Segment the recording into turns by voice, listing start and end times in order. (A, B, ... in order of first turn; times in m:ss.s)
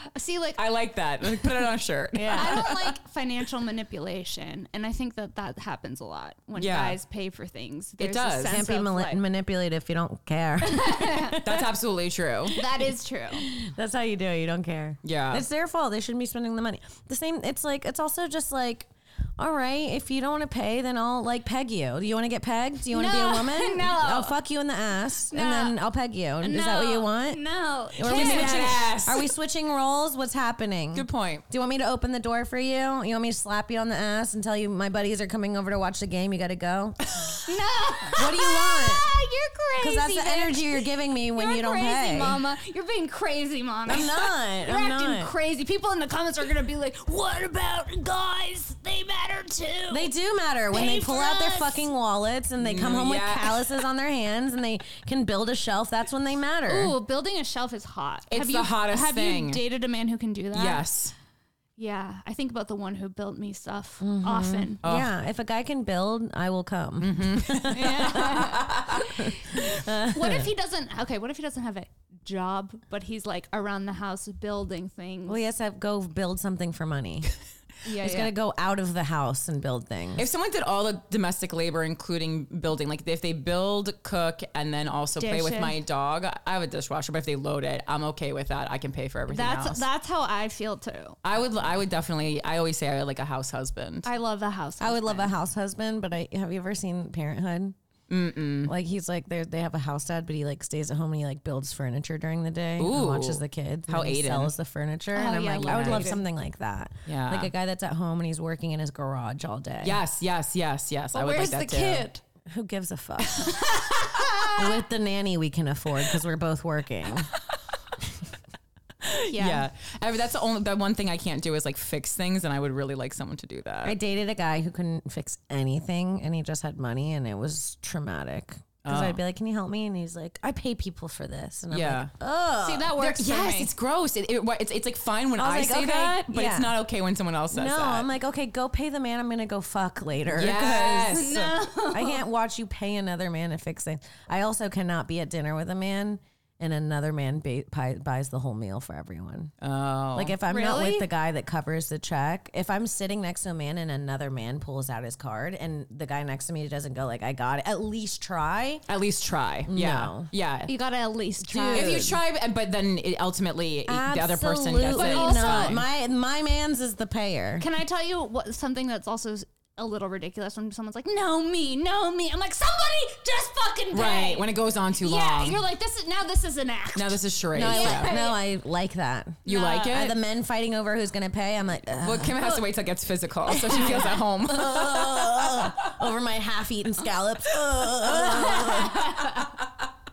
0:00.1-0:00.6 A
0:00.6-0:02.9 B
0:02.1-0:02.7 C
0:02.3-0:09.2 A
0:06.6-0:07.0 B
0:08.0-0:08.6 B
0:08.4-0:11.7 C
0:10.6-0:11.3 A
0:11.4-0:12.6 B
0:12.5-0:13.5 A
0:12.5-0:27.4 C
0:15.0-0:15.4 B
0:22.9-0:24.3 A
0:25.3-0:25.8 A
0:26.4-0:28.8 A
0:27.9-0:37.0 C
0:28.0-0:29.3 B
0:30.9-0:31.4 B
0:37.4-0:50.1 A
0:38.2-0:39.0 C
0:39.8-0:42.4 C
0:43.9-0:45.3 C
0:49.9-0:56.9 C
0:50.7-0:51.9 A
0:52.6-0:53.8 B
0:56.6-1:00.8 A
0:58.3-0:59.6 B
1:00.5-1:01.1 B
1:01.8-1:04.8 A
1:04.0-1:08.5 C
1:04.8-1:05.1 B
1:07.0-1:09.0 B
1:07.7-1:15.4 A
1:09.2-1:10.5 C
1:15.3-1:17.3 C
1:17.8-1:18.3 A
1:18.0-1:20.2 C
1:20.2-1:29.8 B
1:25.2-1:25.8 A
1:29.3-1:31.2 A
1:31.2-1:34.1 B
1:34.0-1:35.3 A
1:34.8-1:37.7 C
1:38.1-1:38.7 B
1:38.6-1:50.0 C
1:42.8-1:44.5 B
1:45.1-1:46.2 A
1:45.6-1:46.2 B
1:47.1-1:47.5 B
1:49.8-1:52.1 B
1:51.1-1:52.2 A
1:52.5-1:53.6 C
1:53.3-1:54.8 A
1:54.6-1:57.3 C
1:59.0-2:04.0 B
1:59.2-1:59.6 A
2:03.8-2:12.9 C
2:08.8-2:09.2 B
2:11.7-2:12.1 B
2:12.6-2:13.7 A
2:13.0-2:18.1 B
2:15.4-2:16.8 C
2:17.5-2:29.5 C
2:20.3-2:21.5 B
2:20.9-2:22.2 A
2:29.6-2:30.4 B
2:30.1-2:38.8 C
2:30.4-2:31.1 A
2:38.9-2:40.7 B
2:39.7-2:40.3 C
2:40.7-2:42.1 A
2:41.4-2:42.2 C
2:41.6-2:45.9 B
2:43.9-2:47.6 C
2:44.9-2:45.8 A
2:47.6-2:58.4 A
2:53.9-2:55.6 B
2:56.9-2:58.2 B
2:57.5-3:02.4 C
2:59.4-2:59.9 A
2:59.4-3:00.2 B
3:02.0-3:05.9 B
3:03.5-3:09.1 C
3:03.7-3:04.1 A
3:08.1-3:09.6 A